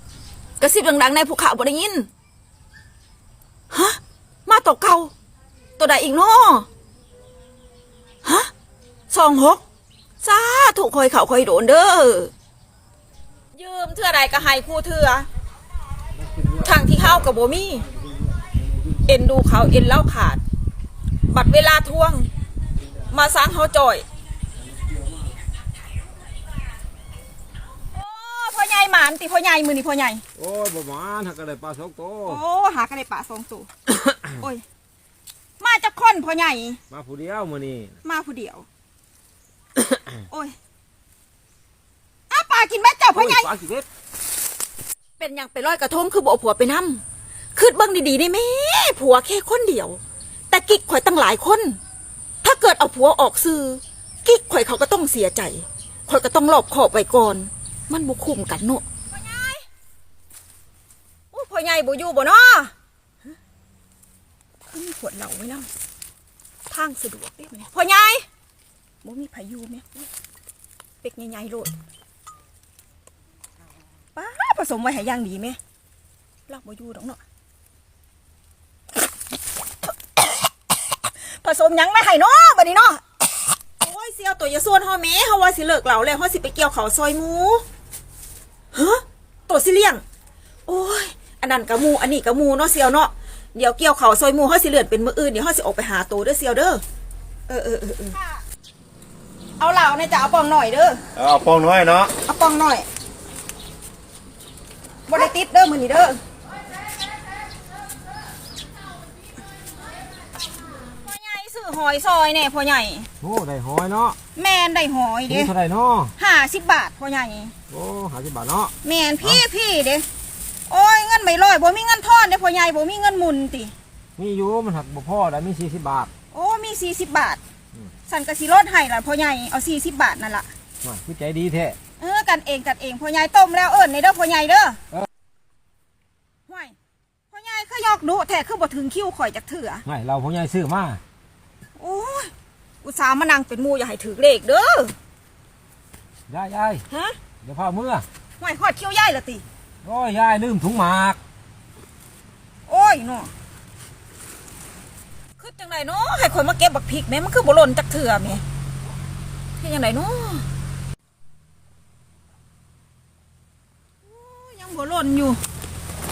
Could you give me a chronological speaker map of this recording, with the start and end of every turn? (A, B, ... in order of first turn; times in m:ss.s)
0:00.6-0:02.1 A
0:03.7-0:05.1 A
0:05.8-0:06.7 A
0:08.2-0:08.5 A
0:09.1-0:09.6 A
0:10.2-0:12.3 A
0:13.6-0:15.3 A
0:16.6-0:17.9 A
0:19.0-0:20.4 A
0:21.3-0:22.3 A
0:23.1-0:24.0 A
0:27.9-0:30.2 A
0:30.4-0:32.4 B
0:32.3-0:33.7 A
0:34.2-0:34.6 A
0:35.6-0:36.8 A
0:36.9-0:38.0 B
0:38.0-0:38.7 A
0:40.3-0:40.6 A
0:42.3-0:43.5 A
0:43.2-0:43.9 B
0:45.2-0:47.0 A
0:47.6-0:51.8 A
0:52.4-0:59.7 A
1:01.3-1:02.7 A
1:04.7-1:05.7 A
1:06.7-1:08.3 A
1:09.0-1:10.1 A
1:11.0-1:11.7 A
1:14.2-1:15.6 A
1:16.5-1:17.2 A
1:21.2-1:23.0 A
1:23.8-1:27.6 A
1:28.7-1:30.0 A
1:30.7-1:36.8 A
1:37.5-1:38.3 A
1:39.6-1:41.0 A
1:41.2-1:42.1 B
1:42.1-1:42.9 A
1:45.1-1:46.2 A
1:51.0-1:53.1 A
1:53.2-1:54.2 B
1:54.4-1:55.5 A
1:55.3-1:56.1 B
1:56.2-1:57.5 A
1:57.7-1:58.7 B
1:58.8-2:00.0 A
2:00.7-2:03.7 A
2:04.2-2:06.1 B
2:06.3-2:07.4 A
2:08.1-2:10.5 A
2:10.8-2:11.8 B
2:12.0-2:14.8 A
2:16.5-2:16.8 A
2:17.3-2:19.8 A
2:19.9-2:21.0 B
2:21.8-2:22.3 A
2:22.8-2:25.0 A
2:26.3-2:26.8 B
2:26.9-2:27.2 A
2:27.4-2:28.1 B
2:28.4-2:29.4 A
2:29.8-2:31.2 B
2:32.7-2:33.3 A
2:35.4-2:38.4 A
2:39.6-2:40.5 A
2:44.0-2:45.4 A